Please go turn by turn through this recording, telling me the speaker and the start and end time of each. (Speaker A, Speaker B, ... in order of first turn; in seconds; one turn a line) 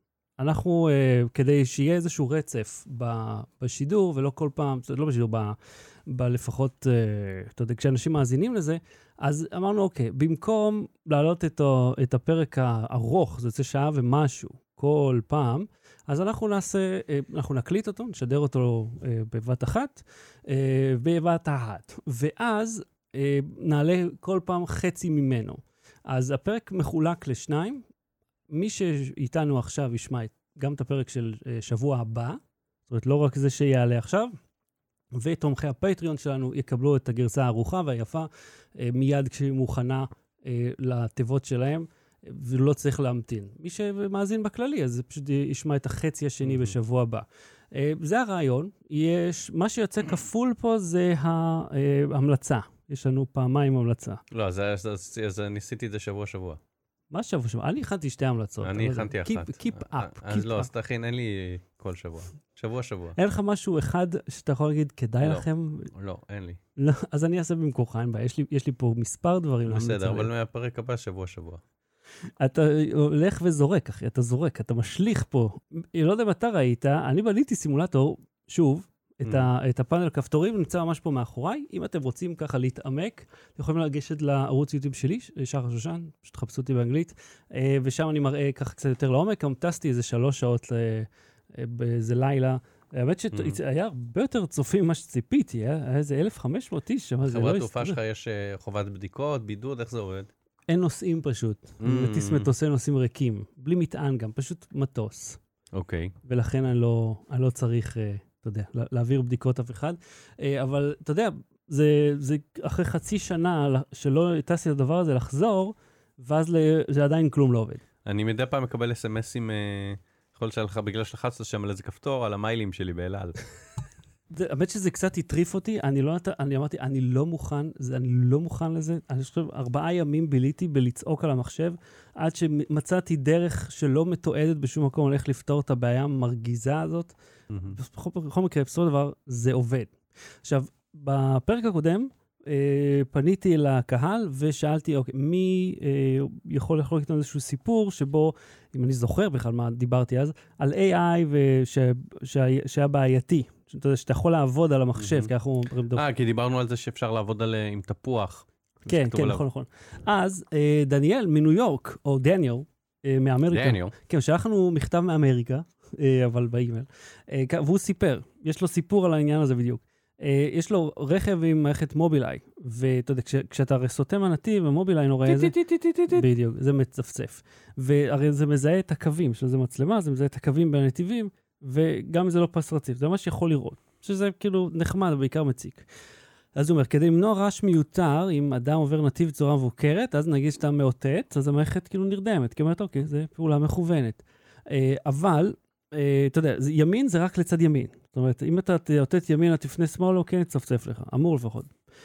Speaker A: 0.4-5.6
Speaker A: 6.1-27.9
Speaker A: 28.5-34.4
Speaker A: 35.1-54.2
Speaker B: 46.4-46.8
Speaker B: 54.3-56.6
Speaker A: 57.1-60.7
Speaker B: 58.6-63.2
Speaker A: 63.2-65.9
Speaker B: 65.2-66.6
Speaker A: 66.8-70.3
Speaker B: 69.7-71.6
Speaker A: 72.4-98.0
Speaker B: 79.2-79.5
Speaker B: 93.3-93.6
Speaker B: 97.2-100.3
Speaker A: 100.7-105.4
Speaker B: 101.8-102.5
Speaker B: 105.7-106.2
Speaker A: 106.2-117.8
Speaker B: 118.0-123.4
Speaker A: 124.3-137.2
Speaker B: 137.5-137.8
Speaker A: 137.7-139.9
Speaker A: 140.4-156.1
Speaker B: 155.0-155.3
Speaker B: 155.9-159.4
Speaker A: 158.8-185.9
Speaker B: 163.5-163.9
Speaker B: 175.3-176.3
Speaker A: 186.6-201.7